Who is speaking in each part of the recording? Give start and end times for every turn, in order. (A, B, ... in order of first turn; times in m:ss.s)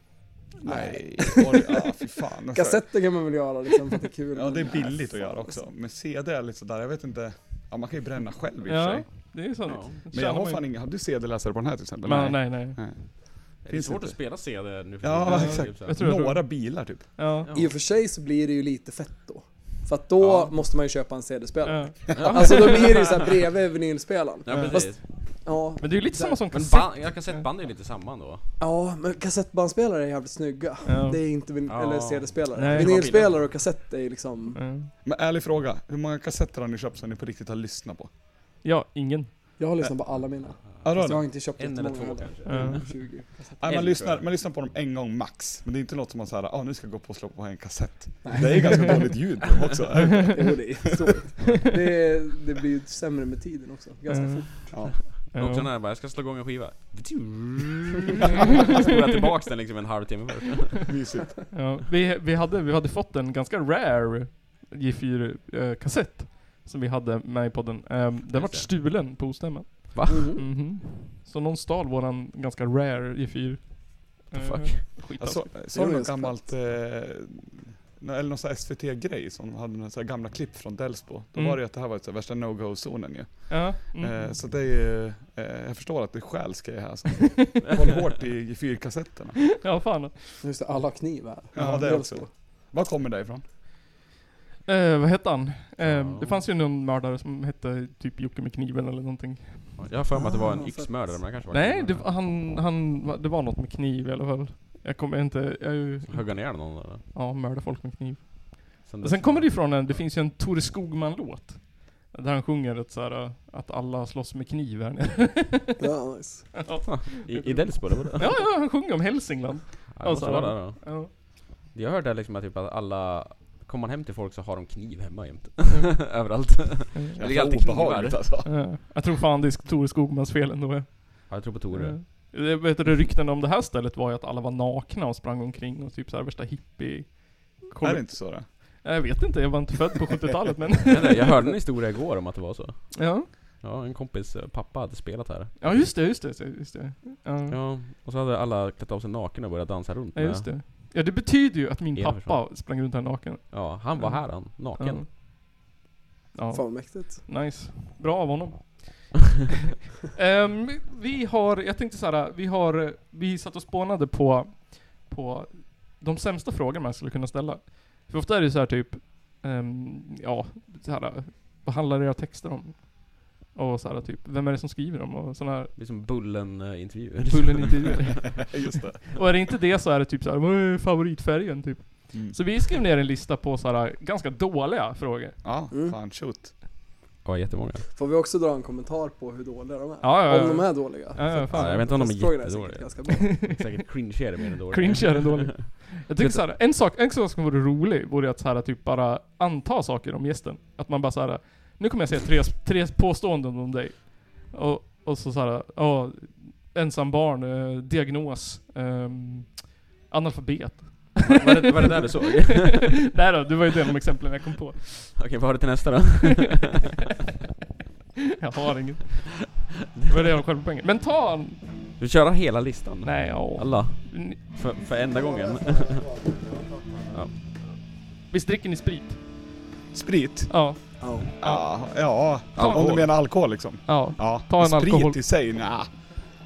0:00.6-0:01.7 A
0:00.6-0:03.1 B
0:02.5-0:05.6 A
0:04.3-0:17.2 B
0:08.7-0:10.6 C
0:09.6-0:10.0 D
0:12.0-0:12.8 C
0:13.6-0:16.0 D
0:15.2-0:17.5 C
0:17.4-0:17.7 D
0:17.5-0:26.4 A
0:20.2-0:20.5 D
0:21.6-0:23.2 C
0:22.2-0:23.1 D
0:24.4-0:25.1 D
0:24.5-0:24.8 C
0:25.8-0:27.4 C
0:26.5-0:28.4 D
0:28.6-0:34.6 A
0:30.8-0:31.2 C
0:31.7-0:33.6 D
0:32.6-0:33.2 C
0:34.5-0:34.9 C
0:35.0-0:38.1 B
0:38.6-0:39.6 C
0:39.6-0:43.8 A
0:40.8-0:41.3 B
0:41.6-0:43.1 D
0:42.5-0:42.8 C
0:43.6-0:50.9 B
0:43.6-0:44.2 D
0:48.2-0:49.1 A
0:48.4-0:49.1 C
0:50.3-0:54.5 A
0:54.1-0:54.7 C
0:54.7-0:55.0 B
0:55.2-1:00.9 D
0:55.3-0:55.7 C
0:58.6-0:58.9 C
1:00.9-1:01.5 B
1:01.5-1:15.4 C
1:08.3-1:08.7 D
1:09.9-1:10.3 D
1:10.1-1:10.4 A
1:14.3-1:14.9 D
1:15.2-1:29.5 B
1:15.7-1:16.5 A
1:23.5-1:24.4 C
1:29.6-1:30.4 C
1:30.4-1:32.3 A
1:31.5-1:33.4 B
1:31.6-1:31.9 C
1:34.6-1:39.9 C
1:35.8-1:36.4 D
1:39.8-1:42.1 D
1:40.2-1:40.9 A
1:41.5-1:55.8 C
1:46.1-1:47.0 D
1:48.8-1:50.0 D
1:55.8-1:56.6 A
1:56.6-2:01.1 C
1:56.8-1:58.4 D
1:59.9-2:08.3 D
2:05.7-2:06.1 C
2:06.9-2:07.2 C
2:07.2-2:08.5 B
2:08.4-2:21.4 C
2:11.3-2:12.1 D
2:17.8-2:18.4 B
2:20.9-2:25.8 D
2:22.9-2:23.3 C
2:25.6-2:27.6 C
2:27.5-2:30.6 D
2:30.1-2:35.1 C
2:32.0-2:32.6 D
2:33.5-2:35.0 D
2:36.3-2:39.4 C
2:36.5-2:37.2 A
2:40.0-2:55.7 C
2:55.7-2:58.4 D
2:57.3-3:05.4 C
2:58.5-2:59.0 B
3:02.1-3:02.4 B
3:05.4-3:06.5 B
3:05.7-3:06.0 A
3:07.2-3:07.8 D
3:07.9-3:13.3 A
3:10.0-3:11.9 C
3:11.5-3:16.4 D
3:13.1-3:14.2 C
3:14.7-3:35.3 C
3:31.2-3:33.2 D
3:35.2-3:36.9 D
3:38.4-3:41.6 C
3:40.0-3:40.3 D
3:42.0-3:46.3 D
3:43.0-3:44.4 C
3:47.1-3:47.3 D
3:48.3-3:49.3 C
3:49.9-3:56.0 B
3:50.5-3:50.9 C
3:51.0-3:51.3 A
3:52.5-3:53.1 D
3:52.6-3:52.9 C
3:53.8-3:55.2 C